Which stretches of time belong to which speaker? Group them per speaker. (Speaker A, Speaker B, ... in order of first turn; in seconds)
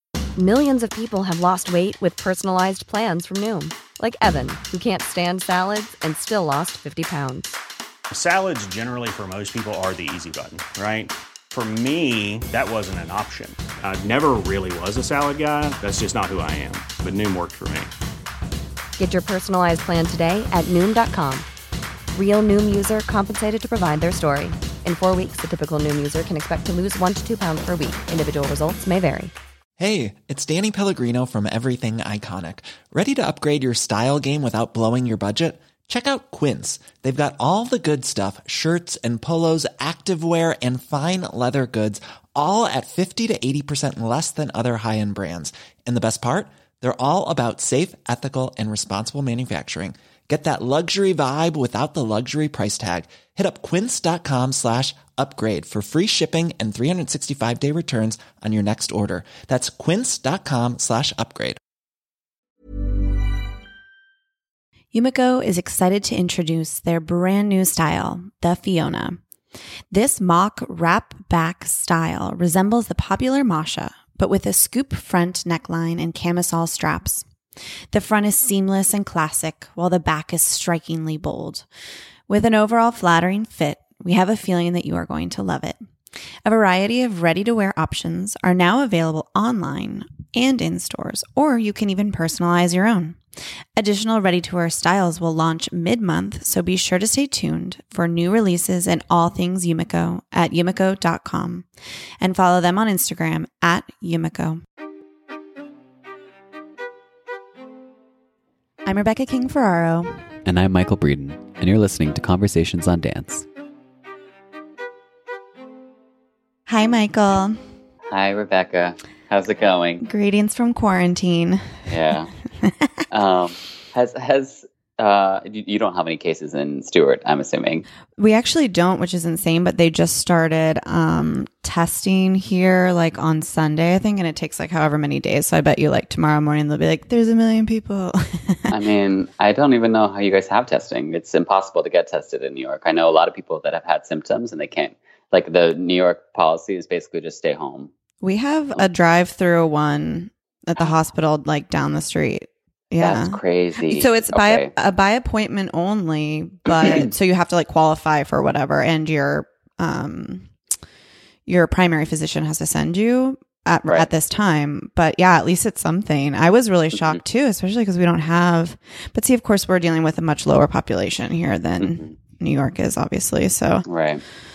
Speaker A: 0.4-7.6, 19.0-21.5, 22.1-29.3
Speaker B: 8.1-17.9
Speaker C: 29.8-61.6
Speaker D: 64.9-69.2, 69.9-77.3, 77.9-81.7, 82.3-85.8, 86.4-93.2, 93.8-101.7, 102.2-104.6, 108.9-110.3, 116.7-117.6, 120.0-121.6, 122.6-122.9, 128.2-138.8, 148.2-160.5, 161.5-173.9
Speaker E: 110.5-113.5
Speaker F: 118.1-120.0, 121.9-122.3, 123.1-127.9, 138.7-147.9, 153.0-154.7, 156.8-157.1, 171.8-172.1, 173.9-174.2